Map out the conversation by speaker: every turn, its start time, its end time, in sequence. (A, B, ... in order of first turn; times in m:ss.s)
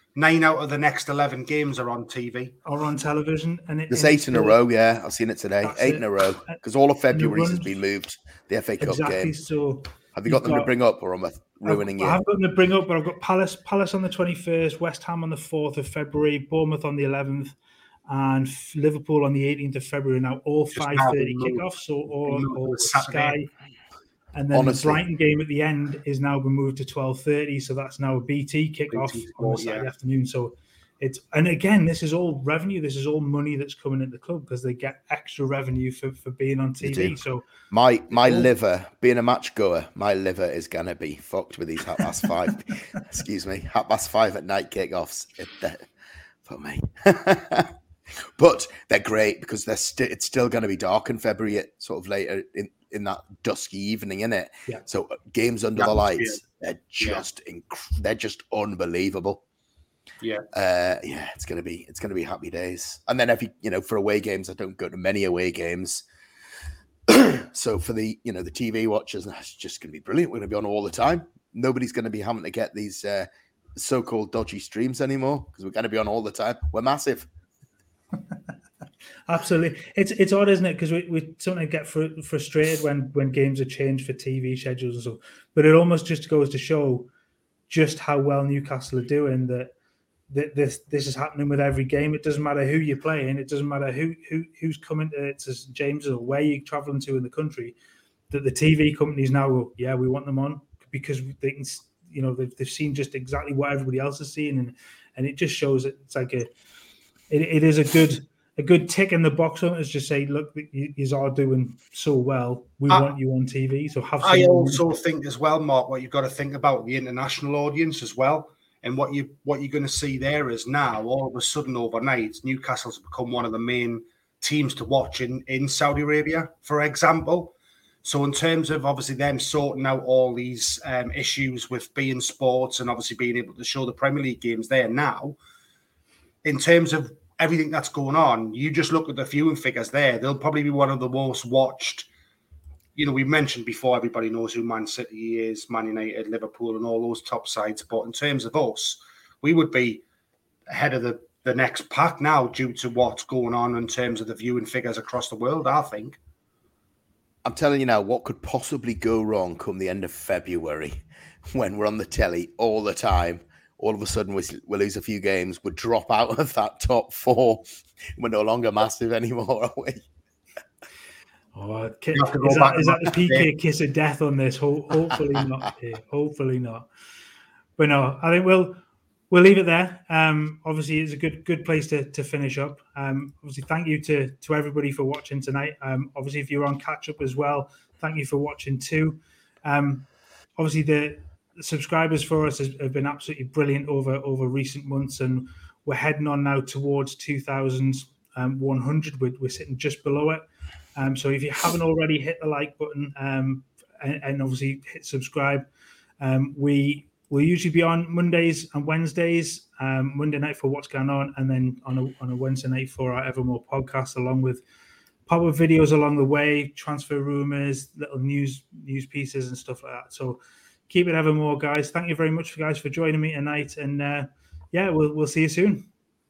0:00.1-0:02.6 A
0:02.6-0:04.6 B
0:03.9-0:09.3 C
0:05.6-0:06.6 B
0:07.1-0:07.8 B
0:08.8-0:10.7 B
0:10.1-0:12.2 C
0:11.6-0:17.5 B
0:18.1-0:23.5 B
0:20.8-0:21.6 A
0:22.2-0:23.4 A
0:24.3-0:37.4 B
0:24.5-0:25.0 C
0:28.9-0:29.9 A
0:36.8-0:37.2 C
0:37.7-0:45.9 C
0:46.4-0:59.4 C
0:55.8-0:56.4 A
0:57.0-0:57.2 A
1:00.2-1:00.4 A
1:00.5-1:06.0 C
1:07.1-1:17.3 C
1:19.3-1:27.1 B
1:27.7-1:29.7 B
1:30.3-1:37.8 B
1:38.3-1:46.5 B
1:47.3-1:54.8 B
1:54.2-2:15.4 A
2:16.4-2:22.1 A
2:23.0-2:30.0 A
2:30.7-2:36.2 A
2:37.4-2:41.0 C
2:41.5-2:47.6 C
2:48.2-2:50.0 C
2:51.5-2:56.9 B
2:52.1-2:53.5 A
2:57.8-3:20.4 B
3:21.0-3:25.7 B
3:26.2-3:34.6 B
3:35.3-3:45.9 B